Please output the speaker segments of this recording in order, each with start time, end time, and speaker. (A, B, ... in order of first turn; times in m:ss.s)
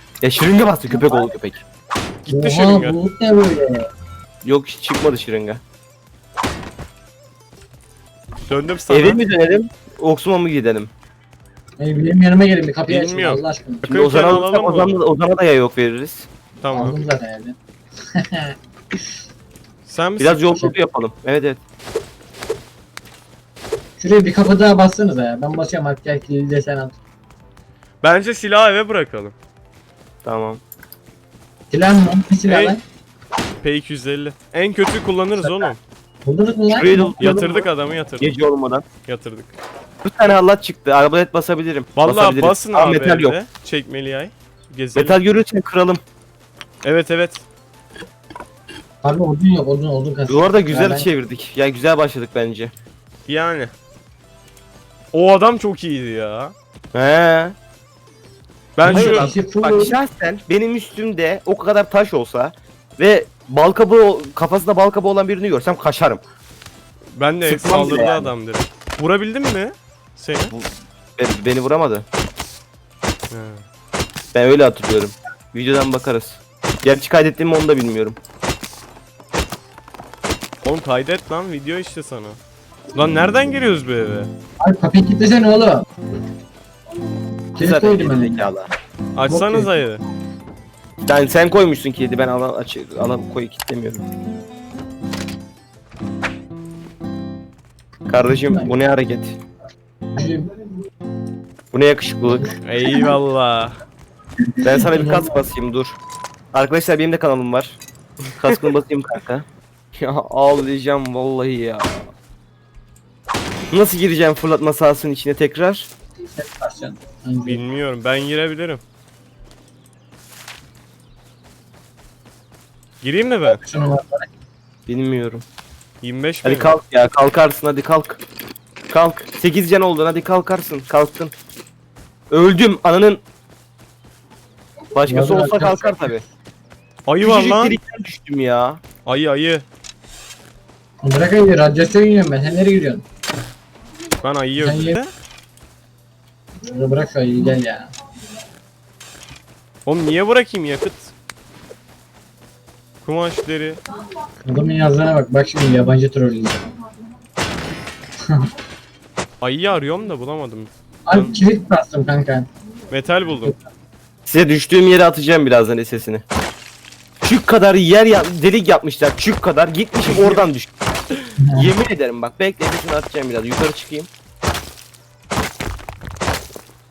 0:00.2-0:01.6 A
0:02.2-0:03.0 B
0:02.3-0:03.8 C
0:04.4-0:05.6 A
0:08.5-0:09.2 B
0:08.9-0:10.9 A
0:11.8-0:13.8 C
0:12.9-0:15.0 B
0:13.8-0:16.3 A
0:16.6-0:17.0 B
0:16.7-0:17.6 C
0:18.2-0:18.5 C
0:19.8-0:20.4 B
0:20.2-0:21.6 A
0:24.0-0:26.9 C
0:28.0-0:29.3 B
0:30.2-0:30.6 A
0:31.7-0:32.8 C
0:32.4-0:32.8 B
0:33.6-0:35.8 B
0:35.4-0:35.7 C
0:36.2-0:37.4 C
0:36.7-0:37.6 A
0:37.2-0:38.3 B
0:38.2-0:38.8 A
0:39.0-0:39.5 B
0:40.0-0:43.4 A
0:42.0-0:45.2 B
0:44.9-0:46.0 A
0:46.8-0:47.4 B
0:49.0-0:51.0 C
0:50.3-0:52.7 A
0:53.3-0:53.7 B
0:55.1-0:56.5 B
0:56.9-0:57.6 A
0:58.8-0:59.3 B
0:58.8-1:00.0 C
0:58.8-1:06.2 A
1:07.1-1:10.5 B
1:07.4-1:08.3 A
1:10.5-1:12.0 A
1:13.3-1:13.6 B
1:14.3-1:18.2 A
1:20.6-1:22.4 B
1:22.9-1:24.3 B
1:24.6-1:25.8 C
1:27.5-1:28.5 C
1:27.6-1:28.7 A
1:29.2-1:30.0 B
1:29.3-1:29.7 C
1:31.0-1:34.0 A
1:38.1-1:39.4 A
1:38.3-1:38.7 C
1:40.1-1:40.5 C
1:41.7-1:42.5 A
1:42.6-1:43.8 B
1:44.6-1:46.0 A
1:44.8-1:45.4 C
1:46.5-1:47.8 A
1:48.4-1:52.1 A
1:53.7-1:55.9 A
1:56.4-1:57.6 C
1:57.5-1:58.8 B
2:03.0-2:03.6 B
2:03.5-2:04.3 C
2:04.9-2:05.4 A
2:06.0-2:06.7 B
2:06.4-2:08.2 A
2:08.9-2:11.3 A
2:12.3-2:13.2 A
2:14.9-2:16.2 A
2:15.0-2:16.2 C
2:17.1-2:17.8 B
2:17.2-2:18.8 A
2:19.0-2:19.6 B
2:21.0-2:23.0 C
2:24.2-2:25.1 B
2:24.6-2:25.0 C
2:26.7-2:27.9 C
2:29.8-2:31.1 B
2:33.0-2:33.8 B
2:34.4-2:36.7 C
2:39.4-2:41.3 B
2:41.0-2:42.5 C
2:42.9-2:43.5 B
2:44.2-2:46.2 A
2:47.2-2:50.7 A
2:51.4-2:51.7 C
2:51.5-2:54.1 A